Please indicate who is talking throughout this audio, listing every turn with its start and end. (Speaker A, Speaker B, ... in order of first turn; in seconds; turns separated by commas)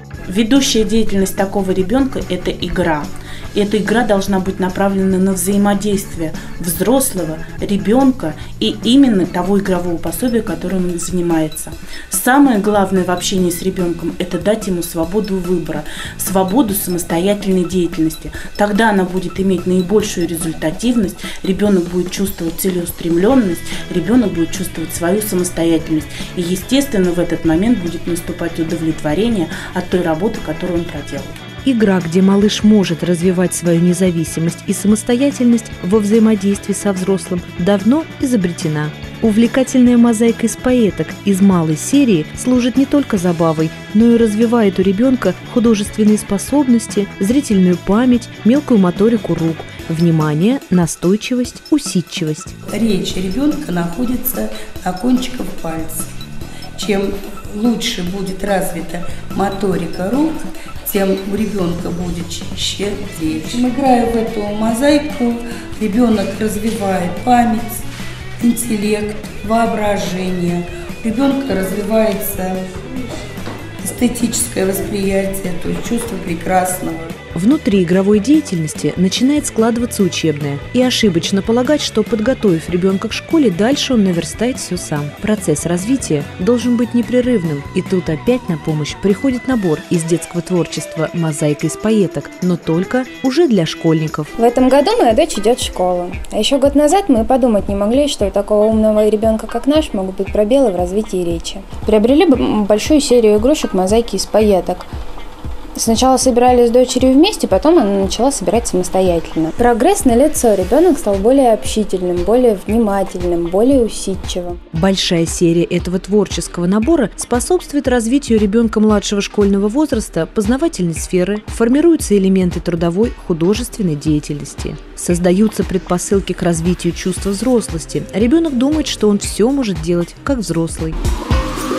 Speaker A: 0.3-31.4, Speaker B: 31.6-52.5, Speaker C: 52.7-56.1, Speaker C: 56.8-67.8, Speaker C: 68.4-72.7, Speaker C: 73.8-77.1, Speaker B: 77.3-94.3, Speaker D: 94.4-104.9, Speaker D: 105.8-114.6, Speaker B: 114.7-131.0